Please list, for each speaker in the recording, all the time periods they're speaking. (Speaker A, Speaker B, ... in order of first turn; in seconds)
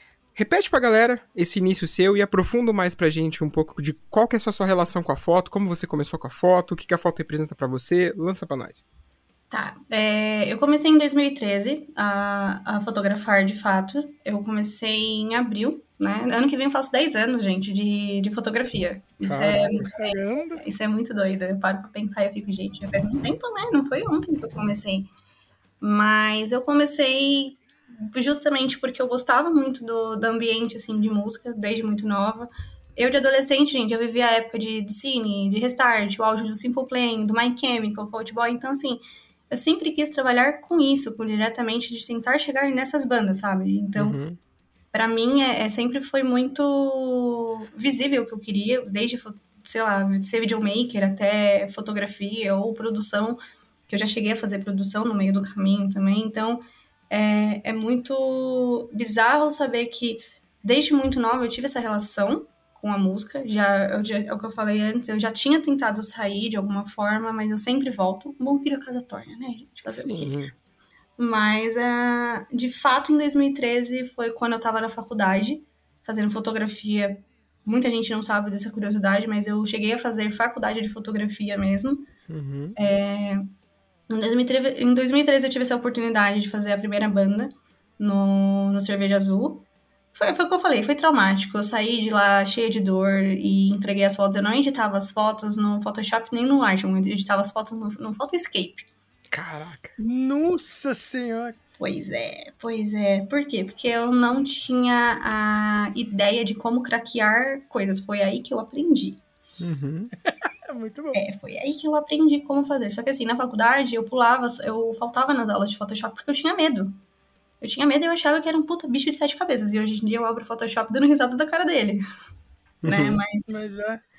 Speaker A: 0.3-8.8, 19.2-19.8, 44.0-44.4, 69.9-70.5, 82.3-82.8, 99.3-99.9, 109.6-110.1, 122.8-123.2
Speaker B: 9.5-25.1, 25.8-44.2, 44.9-70.4, 71.2-82.1, 82.8-83.5, 84.1-98.9, 101.8-109.2, 111.1-117.0, 117.6-122.0, 122.8-123.4
Speaker C: 19.8-20.6, 100.0-101.5, 110.3-111.2, 123.5-124.0